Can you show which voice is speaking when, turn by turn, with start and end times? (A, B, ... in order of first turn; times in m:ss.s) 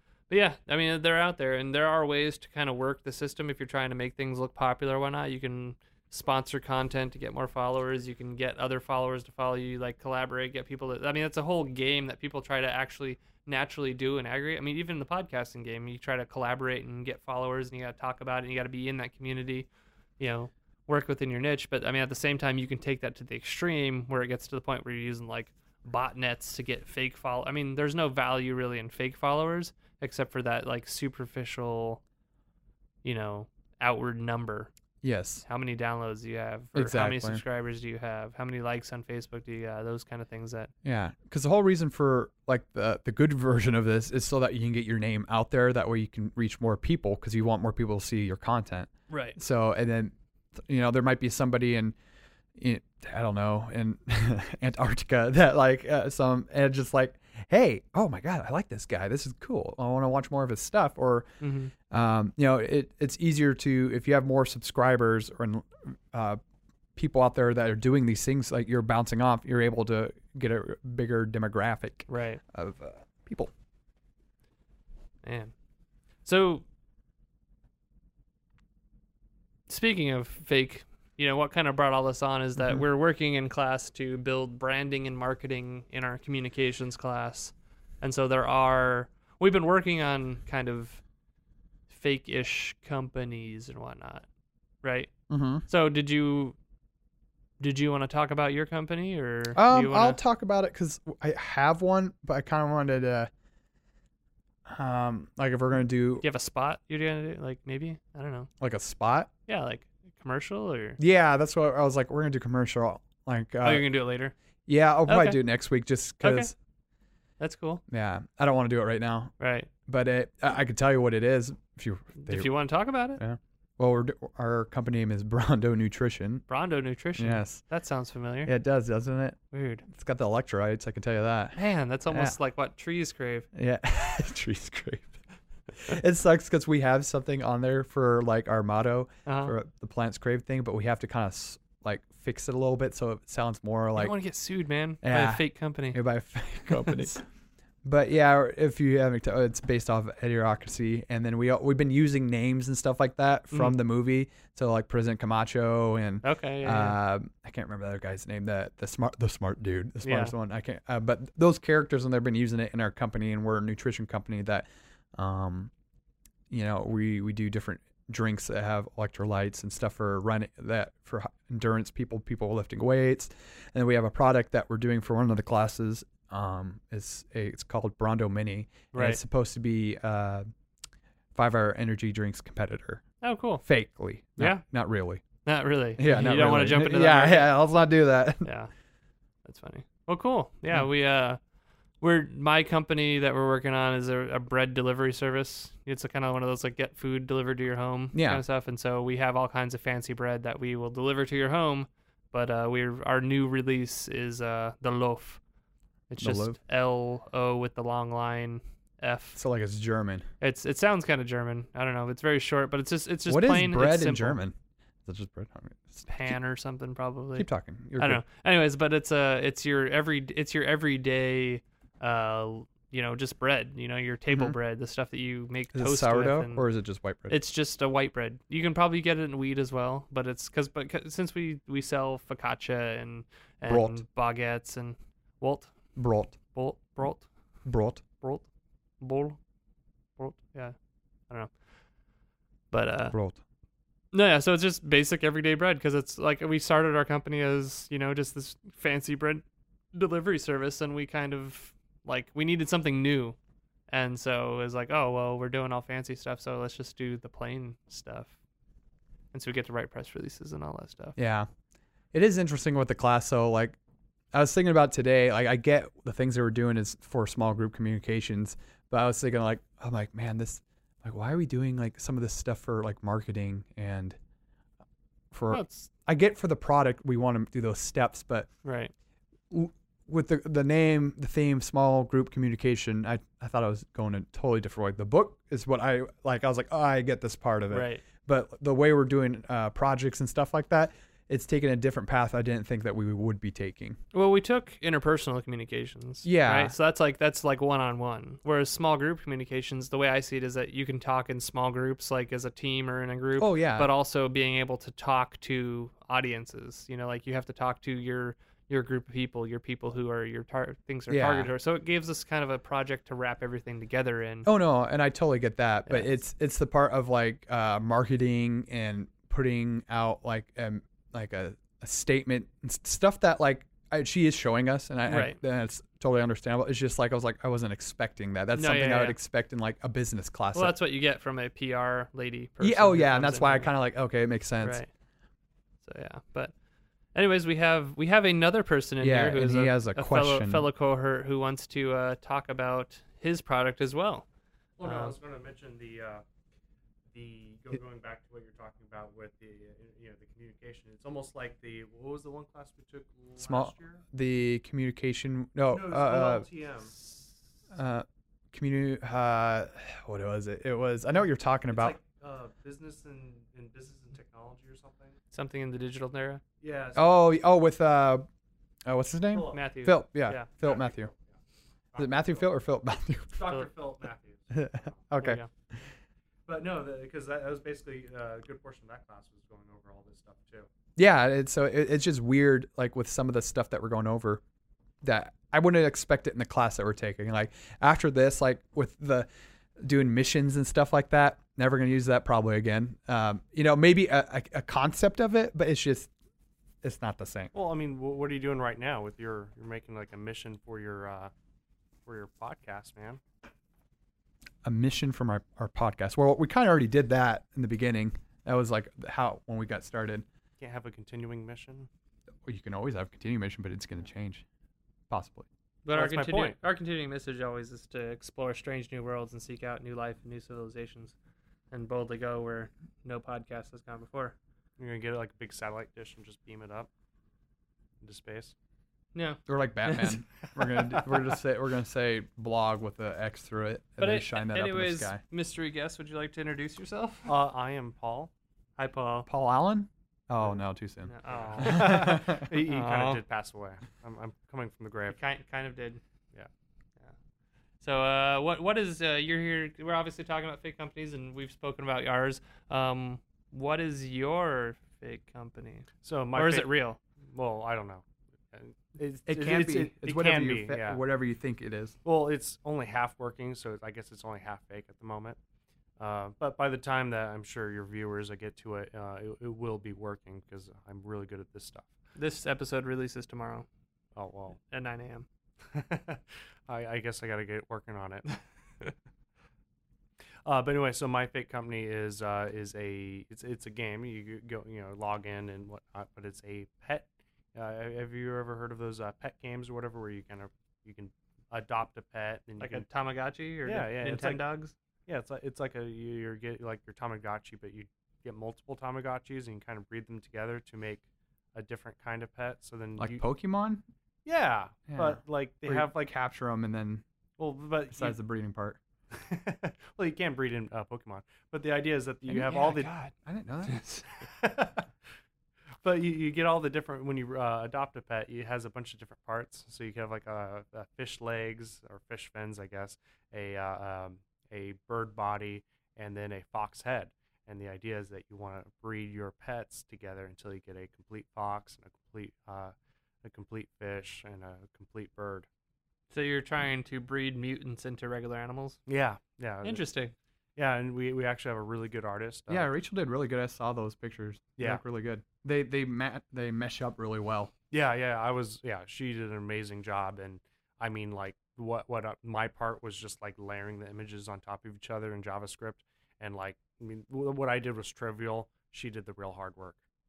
0:00.3-0:19.7 A
0:20.2-0:32.0 A
0:33.0-0:34.7 A
0:35.0-0:35.4 B
0:35.5-0:40.7 A
0:36.8-0:37.4 B
0:40.8-0:52.0 B
0:49.1-0:49.4 A
0:52.6-1:01.3 B
1:01.4-1:01.7 A
1:01.9-1:06.4 B
1:07.0-1:13.5 B
1:12.1-1:12.4 A
1:15.2-1:15.5 A
1:16.2-1:16.6 A
1:19.7-1:31.0 A
1:22.6-1:22.8 B
1:31.9-1:34.3 A
1:34.8-1:35.1 A
1:35.3-1:35.6 B
1:35.7-1:36.6 A
1:37.6-1:40.2 A
1:39.5-1:43.3 B
1:44.7-1:46.2 B
1:46.2-1:48.5 A
1:48.6-1:49.3 B
1:49.5-1:51.0 A
1:51.0-1:53.9 B
1:53.6-1:54.3 A
1:54.7-1:56.5 B
1:55.1-1:55.4 A
1:56.2-1:56.5 A
1:57.4-1:57.8 A
1:57.9-1:59.3 B
1:59.4-1:59.7 A
1:59.9-2:02.5 B
2:02.2-2:03.2 A
2:03.2-2:06.4 B
2:06.5-2:08.5 A
2:07.2-2:07.6 B
2:08.5-2:11.6 B
2:09.5-2:09.8 A
2:11.6-2:13.5 A
2:12.1-2:12.4 B
2:13.5-2:15.2 B
2:15.8-2:24.2 B
2:19.3-2:19.6 A
2:24.0-2:26.0 A
2:25.0-2:27.2 B
2:26.7-2:27.2 A
2:27.8-2:45.7 B
2:33.5-2:33.8 A
2:36.2-2:37.0 A
2:40.0-2:40.3 A
2:46.5-3:00.5 B
2:58.9-2:59.2 A
3:01.4-3:03.0 B
3:03.2-3:03.6 A
3:03.6-3:05.2 B
3:04.4-3:04.6 A
3:05.4-3:07.6 A
3:06.0-3:08.5 B
3:08.4-3:08.7 A
3:09.4-3:11.4 A
3:12.0-3:25.4 A
3:18.1-3:18.4 B
3:26.1-3:29.4 A
3:26.2-3:26.6 B
3:29.4-3:30.2 B
3:30.4-3:34.4 A
3:33.3-3:36.4 B
3:36.1-3:46.6 A
3:37.4-3:38.2 B
3:44.3-3:44.6 B
3:45.7-3:47.4 B
3:47.3-3:55.7 A
3:53.7-3:54.0 B
3:56.0-3:56.4 B
3:56.5-3:57.3 A
3:57.6-3:58.0 B
3:58.2-3:58.4 A
3:59.0-3:59.4 A
4:00.2-4:00.8 A
4:02.7-4:03.2 A
4:03.1-4:03.4 B
4:04.1-4:13.4 A
4:13.9-4:18.3 A
4:19.3-4:21.2 A
4:21.2-4:21.5 B
4:22.1-4:23.8 B
4:24.3-4:34.2 B
4:35.3-4:38.5 B
4:35.5-4:35.9 A
4:38.6-4:38.9 A
4:39.5-4:54.0 B
4:47.7-4:48.0 A
4:54.1-5:14.5 A
4:56.2-4:56.7 B
5:03.4-5:03.9 B
5:11.1-5:11.5 B
5:14.4-5:30.8 B
5:15.9-5:16.2 A
5:25.1-5:25.4 A
5:28.5-5:29.2 A
5:30.5-5:33.7 A
5:32.6-5:34.8 B
5:34.6-5:34.9 A
5:35.8-5:36.5 A
5:37.2-5:44.3 A
5:39.0-5:40.7 B
5:44.8-5:46.2 C
5:44.8-5:45.2 A
5:47.1-5:54.0 C
5:53.4-5:56.5 B
5:55.7-5:57.0 C
5:57.7-6:02.0 B
6:01.7-6:05.2 C
6:05.3-6:06.4 A
6:06.6-6:07.2 C
6:07.0-6:08.3 B
6:08.9-6:11.1 B
6:09.3-6:09.7 C
6:09.5-6:10.5 A
6:10.5-6:11.4 C
6:11.9-6:12.5 C
6:12.0-6:13.6 B
6:13.4-6:14.9 C
6:14.5-6:15.4 B
6:15.2-6:15.5 A
6:16.5-6:20.7 C
6:21.0-6:24.4 B
6:25.0-6:29.3 B
6:29.8-6:36.1 B
6:36.8-6:37.5 B
6:37.5-6:41.3 C
6:42.1-6:43.2 C
6:44.6-6:50.2 B
6:50.6-6:51.9 C
6:52.4-6:54.4 B
6:55.1-6:55.5 B
6:55.8-7:01.1 A
6:55.9-6:56.6 C
7:01.7-7:04.4 A
7:04.8-7:06.9 C
7:08.0-7:08.5 C
7:09.2-7:10.2 A
7:09.5-7:15.2 B
7:14.0-7:17.3 A
7:17.3-7:18.3 C
7:18.8-7:19.3 A
7:19.3-7:22.5 B
7:21.1-7:23.2 A
7:21.2-7:25.2 C
7:25.1-7:26.0 A
7:27.8-7:37.0 A
7:36.0-7:41.0 C
7:39.3-7:42.0 B
7:42.0-7:45.4 C
7:46.0-7:51.9 C
7:52.2-7:53.7 A
7:54.2-7:54.6 C
7:54.7-7:55.3 A
7:55.7-7:58.4 C
8:00.4-8:12.9 C
8:12.6-8:14.7 A
8:13.6-8:14.4 C
8:15.1-8:21.0 C
8:21.6-8:23.2 C
8:23.0-8:23.8 B
8:24.2-8:26.1 C
8:24.9-8:27.0 B
8:27.4-8:28.2 C
8:27.9-8:28.8 B
8:29.1-8:32.9 C
8:32.3-8:33.8 B
8:32.5-8:33.1 A
8:33.6-8:34.1 A
8:34.3-8:34.9 C
8:35.8-8:55.5 C
8:56.1-8:58.8 A
8:58.9-8:59.8 C
8:59.6-9:00.1 A
9:00.6-9:02.7 C
9:02.5-9:07.5 B
9:07.7-9:19.8 C